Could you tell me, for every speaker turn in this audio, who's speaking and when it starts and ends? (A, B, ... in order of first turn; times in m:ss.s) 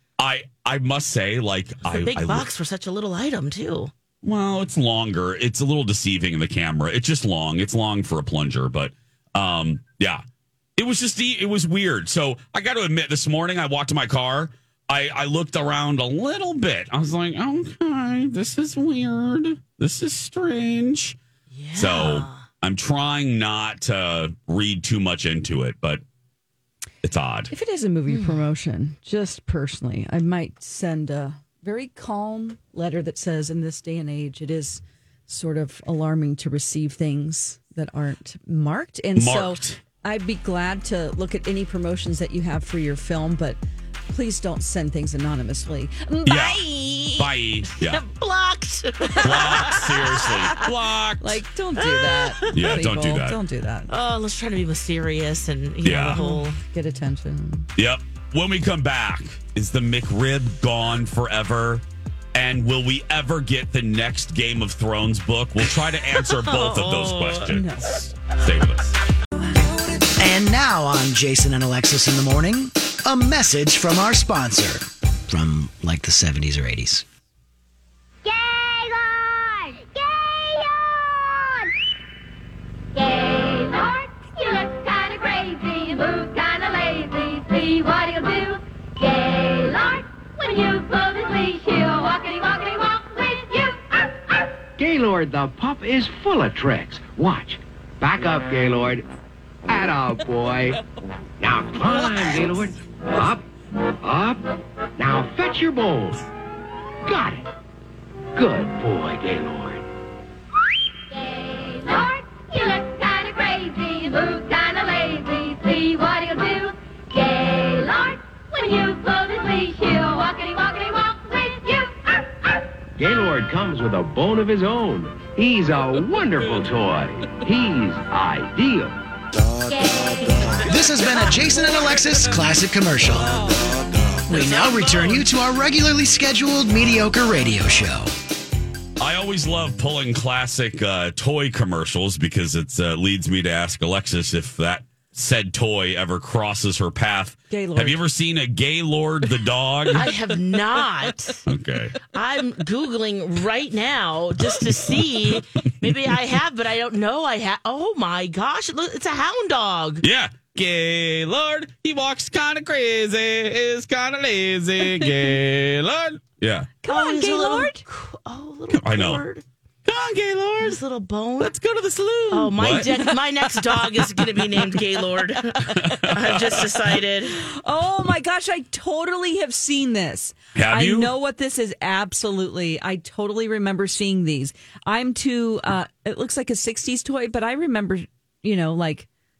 0:00.2-0:02.5 A
0:01.9-0:03.9 B
0:04.2-0:10.2 A
0:10.8-0:21.2 A
0:21.5-0:22.4 B
0:21.8-0:26.0 A
0:27.0-0:27.5 A
0:27.5-0:47.3 C
0:28.1-0:28.5 B
0:39.2-0:39.8 A
0:46.2-0:48.0 A
0:47.8-0:50.6 B
0:49.1-0:50.6 C
0:49.2-0:51.4 A
0:51.2-0:53.9 C
0:51.8-0:52.8 B
0:52.5-0:53.4 A
0:53.9-0:56.6 B
0:55.8-0:56.2 A
0:56.1-0:57.7 C
0:57.8-1:09.0 A
1:06.2-1:07.5 B
1:07.5-1:08.1 C
1:10.2-1:17.0 D
1:18.2-1:21.6 E
1:22.9-1:34.0 E
1:34.8-1:39.1 F
1:39.7-1:40.8 F
1:41.4-1:43.4 F
1:44.0-1:44.4 F
1:45.0-1:46.2 F
1:47.0-1:47.4 F
1:48.4-1:49.8 F
1:51.1-2:02.0 E
2:03.0-2:09.0 F
2:09.7-2:10.6 E
2:10.7-2:13.4 D
2:14.3-2:18.1 D
2:14.3-2:15.2 B
2:19.0-2:30.1 A
2:27.5-2:28.0 C
2:29.9-2:31.4 B
2:31.5-2:32.0 A
2:32.1-2:40.0 B
2:35.0-2:35.4 A
2:40.0-2:46.7 A
2:46.8-2:47.8 C
2:46.9-2:49.4 B
2:48.7-2:49.2 A
2:49.8-2:50.8 A
2:50.6-2:51.5 B
2:51.4-2:53.0 A
2:52.3-2:57.4 B
2:55.6-2:56.7 A
2:57.4-3:09.1 C
3:00.6-3:01.1 A